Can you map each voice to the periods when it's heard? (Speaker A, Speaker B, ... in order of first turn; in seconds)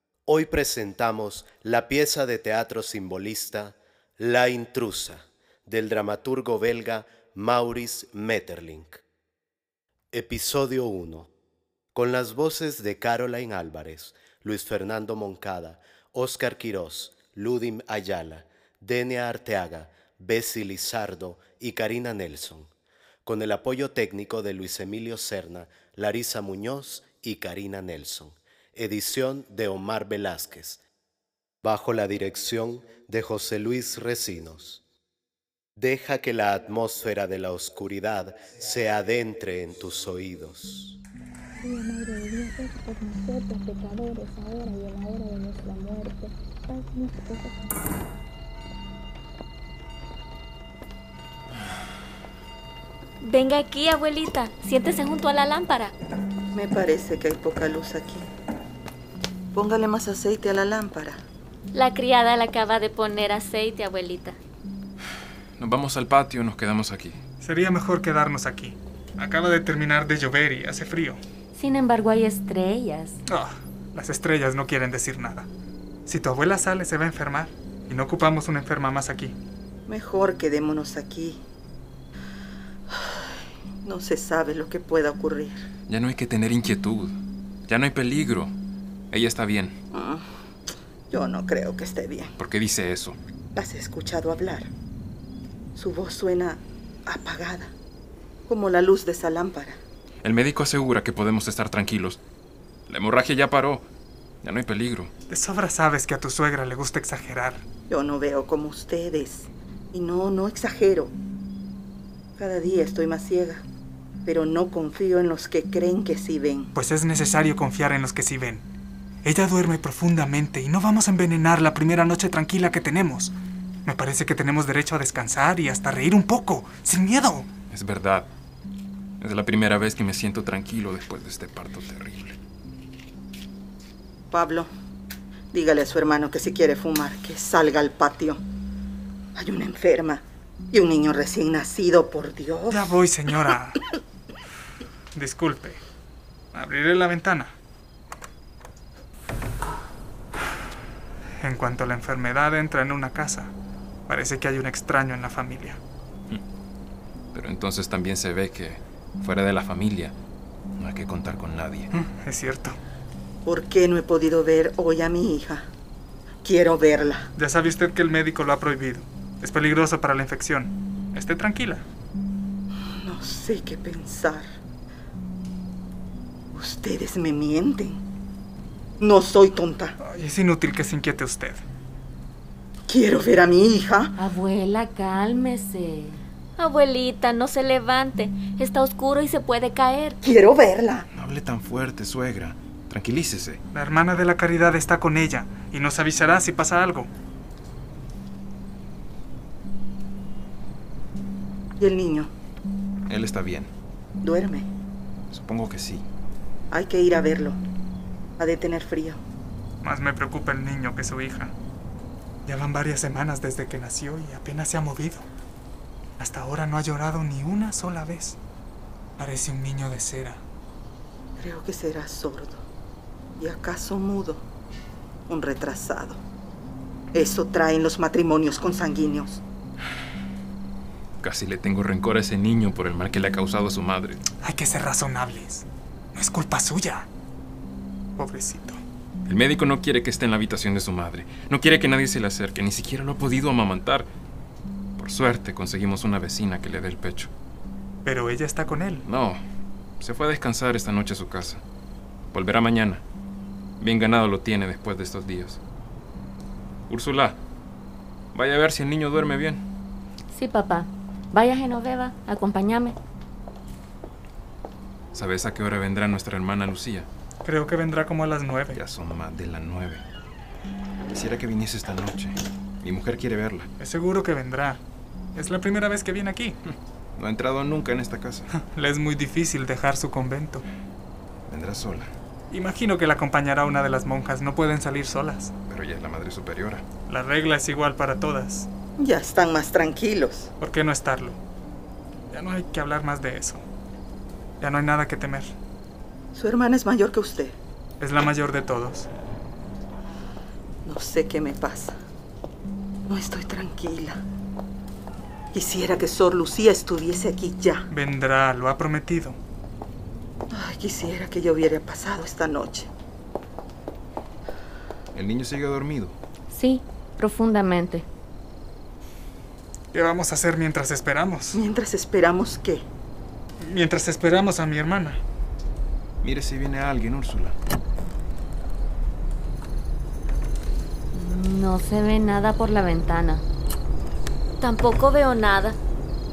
Speaker A: 0.3-9.0, 10.1-11.3, 11.9-22.7, 23.2-30.8, 31.6-34.8, 35.8-41.0
Speaker B: 41.6-47.8
Speaker C: 53.2-55.9, 61.7-64.4, 186.6-190.2, 334.6-335.8
Speaker D: 56.5-58.3, 59.5-61.2, 79.9-81.4, 82.9-85.6, 89.9-90.2, 91.1-92.3, 93.5-94.7, 95.8-97.7, 98.5-99.8, 107.9-111.1, 112.4-113.7, 114.2-116.7, 134.3-134.7, 135.5-138.4, 139.3-143.0, 163.4-165.7, 166.4-167.3, 172.9-174.5, 176.5-178.0, 179.0-180.0, 182.9-184.2, 190.2-191.1, 201.8-202.3, 204.2-204.7, 206.7-207.6, 208.4-209.2, 221.4-222.6, 223.4-224.4, 225.3-226.2, 227.1-229.4, 289.0-290.5, 296.3-297.6, 300.9-301.9, 303.1-304.2, 305.5-307.9, 310.5-312.9, 321.5-322.9
Speaker E: 65.6-67.2, 85.9-87.2, 87.7-88.5, 89.1-89.8, 92.4-93.2, 100.2-102.2, 102.9-103.9, 104.4-105.1, 127.7-128.3, 129.2-132.3, 157.3-160.1, 160.8-161.9, 191.1-193.6, 203.1-203.7, 205.3-206.1, 231.2-234.2, 239.3-244.1, 245.0-247.3, 249.1-249.4, 250.0-251.6, 252.3-253.0, 253.8-255.6, 256.9-257.4, 258.3-259.6, 265.1-267.1, 268.7-270.0, 271.1-273.7, 277.2-278.5, 281.5-282.1, 285.7-286.9, 315.1-316.1, 326.2-327.6
Speaker F: 67.4-71.2, 73.3-75.5, 76.1-79.4, 105.3-107.7, 116.8-118.7, 119.2-123.3, 123.9-127.5, 142.7-143.8, 145.1-145.8, 146.5-147.5, 151.4-153.5, 154.1-155.8, 161.9-162.8, 167.4-171.8, 180.0-181.6, 193.7-197.1, 209.8-211.5, 212.5-215.3, 216.2-218.4, 219.2-220.4, 234.4-237.1, 238.2-238.8, 248.0-249.1, 267.4-268.8, 273.8-274.8, 275.4-276.6, 278.5-280.6, 282.5-285.5, 287.1-288.7, 290.6-291.4, 292.3-293.6, 294.6-295.6, 298.0-299.1, 307.9-309.4, 319.9-321.6, 323.6-325.2
Speaker G: 71.5-73.2, 184.2-186.2, 260.3-263.0, 316.5-318.1, 331.1-333.4